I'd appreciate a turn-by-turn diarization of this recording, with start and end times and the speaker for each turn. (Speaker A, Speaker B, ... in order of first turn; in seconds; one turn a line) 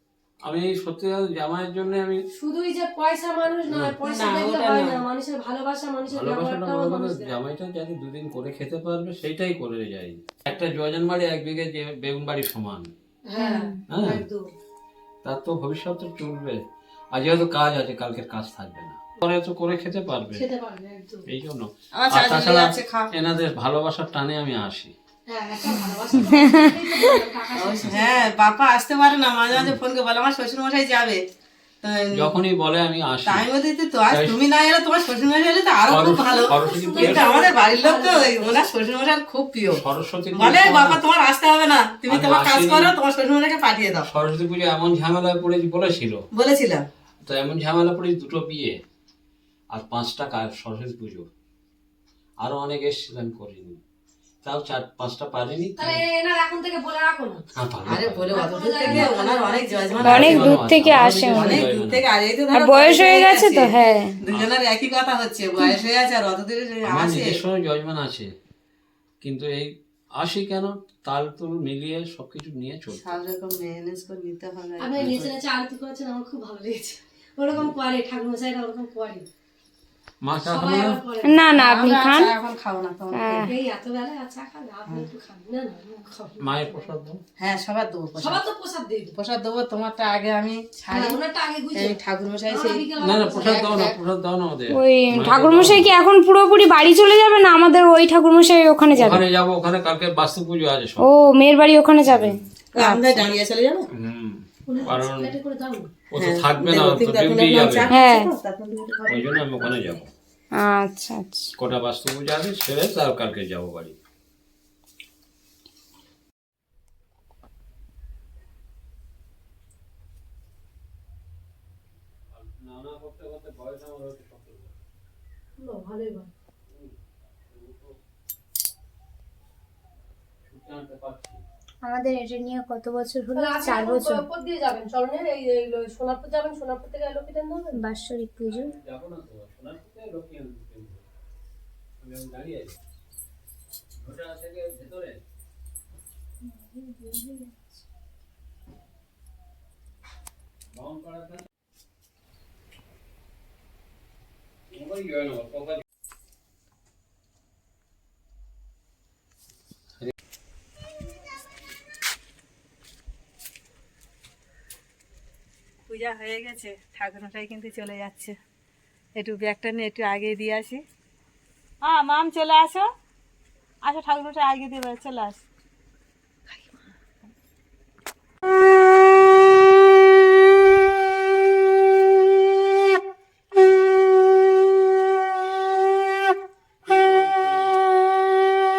Speaker A: 0.4-2.2
Speaker B: 2.3-7.3
Speaker A: 3.6-3.9
Speaker C: 4.0-5.0
Speaker A: 6.1-12.9
Speaker B: 13.3-14.5
Speaker D: 13.4-13.8
Speaker A: 13.9-14.2
Speaker A: 15.2-16.6
Speaker A: 17.1-20.5
Speaker B: 20.3-21.2
Speaker A: 21.3-24.9
Speaker C: 22.0-23.1
Speaker B: 25.3-28.3
Speaker D: 26.3-26.7
Speaker C: 27.6-31.2
Speaker C: 31.8-32.4
Speaker A: 32.1-33.5
Speaker C: 33.2-39.8
Speaker A: 34.1-34.4
Speaker A: 35.9-37.3
Speaker B: 36.2-38.6
Speaker A: 39.8-41.0
Speaker C: 40.3-44.1
Speaker A: 42.1-42.9
Speaker A: 44.0-46.2
Speaker C: 46.3-46.9
Speaker A: 47.2-48.8
Speaker A: 49.7-51.3
Speaker A: 52.4-53.8
Speaker A: 54.4-56.0
Speaker B: 55.8-57.4
Speaker A: 57.5-58.3
Speaker C: 57.9-60.5
Speaker B: 58.3-60.3
Speaker A: 58.8-59.1
Speaker A: 60.0-62.0
Speaker D: 60.0-61.6
Speaker C: 61.3-67.4
Speaker D: 62.5-64.2
Speaker A: 66.8-68.3
Speaker A: 69.2-73.2
Speaker C: 72.9-75.3
Speaker B: 74.8-79.3
Speaker A: 75.0-75.3
Speaker A: 80.2-81.0
Speaker B: 80.4-81.4
Speaker D: 81.2-82.3
Speaker C: 81.5-83.5
Speaker D: 83.1-83.5
Speaker B: 83.4-86.9
Speaker A: 86.4-87.2
Speaker C: 87.4-88.4
Speaker B: 88.2-89.1
Speaker C: 89.1-91.2
Speaker B: 90.9-92.0
Speaker C: 91.7-92.9
Speaker B: 92.5-93.9
Speaker A: 93.0-95.9
Speaker C: 93.6-94.0
Speaker D: 94.7-99.2
Speaker A: 98.9-101.1
Speaker D: 101.0-103.2
Speaker A: 102.1-102.4
Speaker C: 102.7-103.8
Speaker A: 103.9-105.3
Speaker B: 104.7-105.9
Speaker A: 106.1-107.9
Speaker C: 106.2-110.0
Speaker D: 107.9-108.3
Speaker A: 109.1-110.1
Speaker D: 110.6-111.5
Speaker A: 111.6-114.0
Speaker A: 122.3-124.8
Speaker B: 125.6-126.3
Speaker A: 126.7-127.0
Speaker A: 127.5-128.0
Speaker A: 130.4-131.4
Speaker D: 131.8-134.2
Speaker B: 133.3-137.8
Speaker D: 137.7-138.7
Speaker A: 138.5-141.0
Speaker A: 142.0-142.7
Speaker A: 144.0-145.2
Speaker D: 146.6-147.5
Speaker A: 150.7-151.4
Speaker A: 154.7-155.8
Speaker C: 165.9-168.3
Speaker C: 169.2-170.8
Speaker C: 171.8-172.9
Speaker C: 173.8-175.4
Speaker C: 176.5-176.8
Speaker A: 186.8-187.8